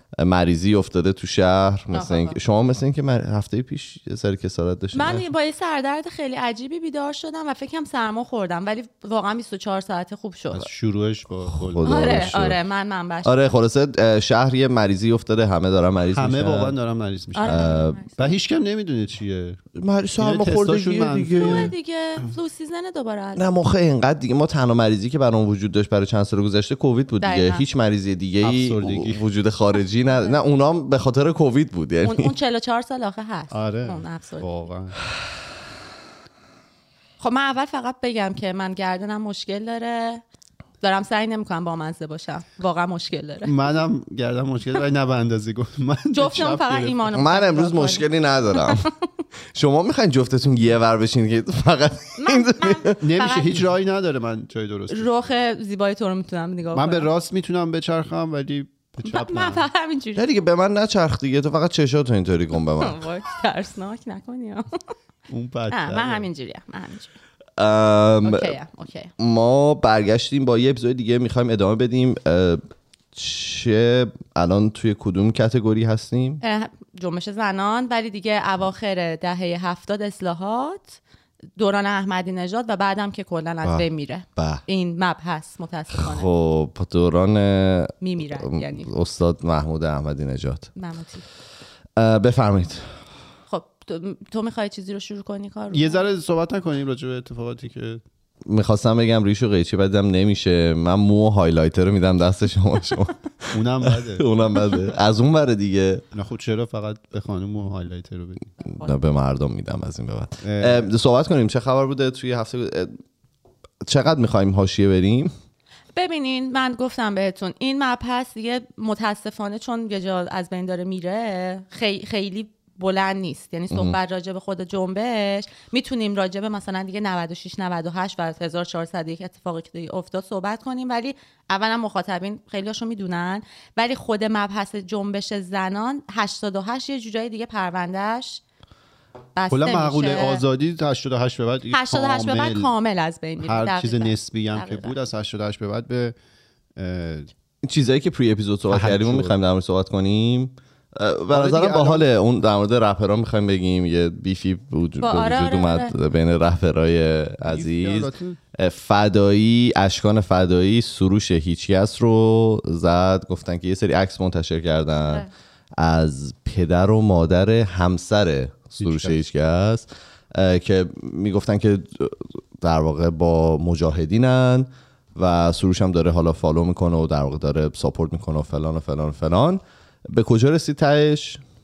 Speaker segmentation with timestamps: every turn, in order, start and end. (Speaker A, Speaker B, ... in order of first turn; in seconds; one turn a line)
Speaker A: 0.2-5.2
Speaker B: 1.9-2.4
Speaker B: 5.0-10.7
Speaker C: 10.5-12.6
Speaker A: 11.4-12.6
Speaker B: 11.8-13.5
Speaker A: 13.2-16.7
Speaker C: 16.1-17.6
Speaker B: 17.3-18.3
Speaker A: 17.4-18.0
Speaker C: 18.2-19.6
Speaker A: 19.7-21.7
Speaker C: 20.2-21.7
Speaker B: 21.4-23.4
Speaker A: 23.4-32.3
Speaker B: 27.2-27.6
Speaker C: 28.4-29.2
Speaker B: 32.0-34.5
Speaker C: 33.5-35.0
Speaker B: 37.2-40.2
Speaker B: 40.8-43.5
Speaker C: 43.5-47.0
Speaker B: 46.1-48.9
Speaker A: 47.1-48.9
Speaker A: 49.5-53.0
Speaker B: 52.2-53.6
Speaker C: 53.0-55.3
Speaker B: 54.9-57.1
Speaker C: 56.7-59.6
Speaker B: 59.0-60.4
Speaker A: 60.1-63.0
Speaker B: 62.8-64.8
Speaker C: 65.3-66.2
Speaker B: 65.7-67.1
Speaker A: 67.6-68.5
Speaker B: 68.2-69.1
Speaker A: 69.2-72.6
Speaker A: 73.1-76.4
Speaker B: 76.4-81.0
Speaker B: 81.6-86.3
Speaker A: 83.6-84.6
Speaker A: 85.9-90.7
Speaker B: 88.0-88.9
Speaker B: 90.8-91.2
Speaker A: 92.0-93.1
Speaker B: 93.5-96.0
Speaker C: 95.7-98.0
Speaker A: 98.5-106.0
Speaker C: 103.5-104.2
Speaker C: 106.1-108.5
Speaker A: 108.6-113.0
Speaker B: 108.6-109.0
Speaker C: 110.4-110.9
Speaker A: 113.8-115.3
Speaker B: 115.9-138.4
Speaker A: 123.7-124.0
Speaker B: 139.3-140.4
Speaker C: 139.5-142.7
Speaker B: 141.7-144.9
Speaker C: 143.4-146.2
Speaker C: 146.8-147.3
Speaker A: 147.6-165.2
Speaker C: 148.7-149.3
Speaker C: 151.3-152.1
Speaker B: 155.0-155.9
Speaker C: 157.5-158.4
Speaker A: 165.8-181.4
Speaker C: 168.8-169.2